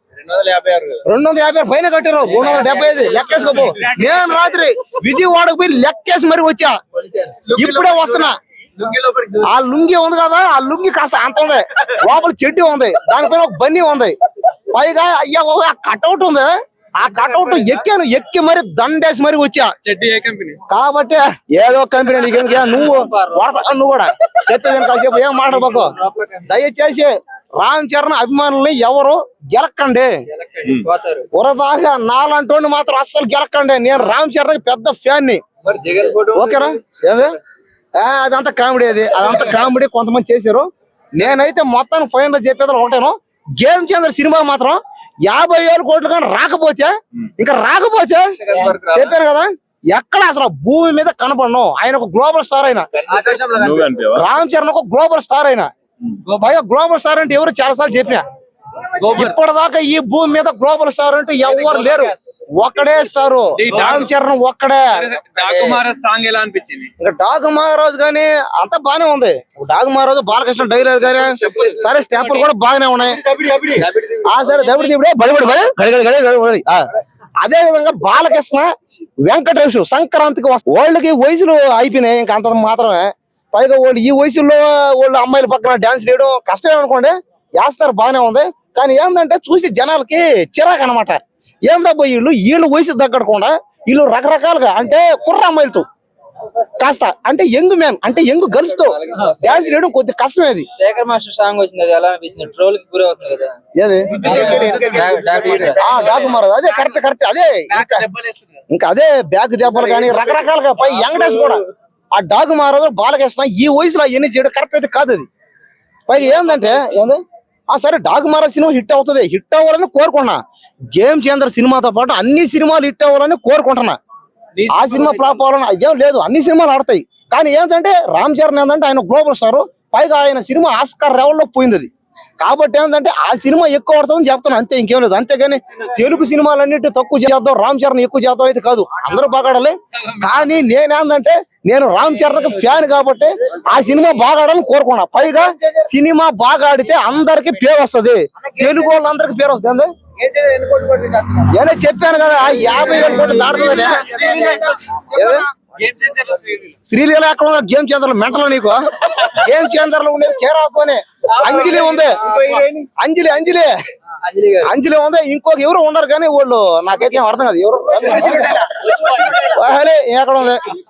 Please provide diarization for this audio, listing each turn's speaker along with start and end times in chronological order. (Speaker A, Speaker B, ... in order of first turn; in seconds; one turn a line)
Speaker A: 0.2-1.0
Speaker B: 1.0-6.8
Speaker C: 2.2-3.8
Speaker D: 3.1-4.4
Speaker C: 7.0-7.4
Speaker D: 7.5-9.5
Speaker B: 7.5-8.4
Speaker B: 9.4-14.2
Speaker B: 14.7-19.7
Speaker D: 17.1-17.8
Speaker D: 19.8-20.6
Speaker B: 20.7-30.1
Speaker C: 22.2-23.7
Speaker C: 25.4-26.4
Speaker C: 30.3-31.3
Speaker B: 31.3-35.4
Speaker A: 35.6-36.7
Speaker B: 36.3-37.4
Speaker B: 38.0-52.9
Speaker A: 48.3-49.2
Speaker A: 52.9-53.9
Speaker D: 53.1-54.2
Speaker B: 54.0-55.7
Speaker D: 56.2-56.5
Speaker B: 56.4-58.2
Speaker D: 59.0-59.3
Speaker B: 59.0-65.0
Speaker D: 61.6-62.1
Speaker D: 63.6-64.1
Speaker D: 64.9-66.9
Speaker C: 65.4-65.8
Speaker B: 67.0-73.2
Speaker D: 71.2-72.5
Speaker D: 73.1-73.9
Speaker A: 73.7-74.6
Speaker B: 74.2-76.8
Speaker B: 77.4-78.7
Speaker B: 79.2-95.8
Speaker B: 96.8-100.7
Speaker A: 98.8-99.7
Speaker C: 100.7-103.5
Speaker B: 103.8-104.9
Speaker D: 104.1-107.0
Speaker A: 104.2-105.8
Speaker C: 104.2-105.8
Speaker B: 105.7-108.0
Speaker D: 107.7-108.6
Speaker B: 108.7-111.6
Speaker A: 109.8-110.3
Speaker B: 112.1-115.3
Speaker B: 116.1-120.4
Speaker D: 116.3-116.9
Speaker B: 120.9-124.0
Speaker D: 124.5-125.4
Speaker B: 124.7-131.9
Speaker B: 132.4-149.9
Speaker C: 145.3-145.9
Speaker C: 148.4-148.9
Speaker C: 150.2-151.5
Speaker B: 151.5-154.2
Speaker C: 152.7-155.4
Speaker D: 153.2-154.8
Speaker A: 153.9-154.6
Speaker B: 155.1-155.5
Speaker D: 155.8-156.7
Speaker B: 156.9-162.2
Speaker D: 161.4-162.2
Speaker A: 161.5-162.9
Speaker C: 161.9-162.7
Speaker B: 163.0-163.7
Speaker C: 164.2-164.7
Speaker B: 164.6-168.6
Speaker A: 168.0-169.4
Speaker C: 168.0-169.5
Speaker B: 169.4-170.7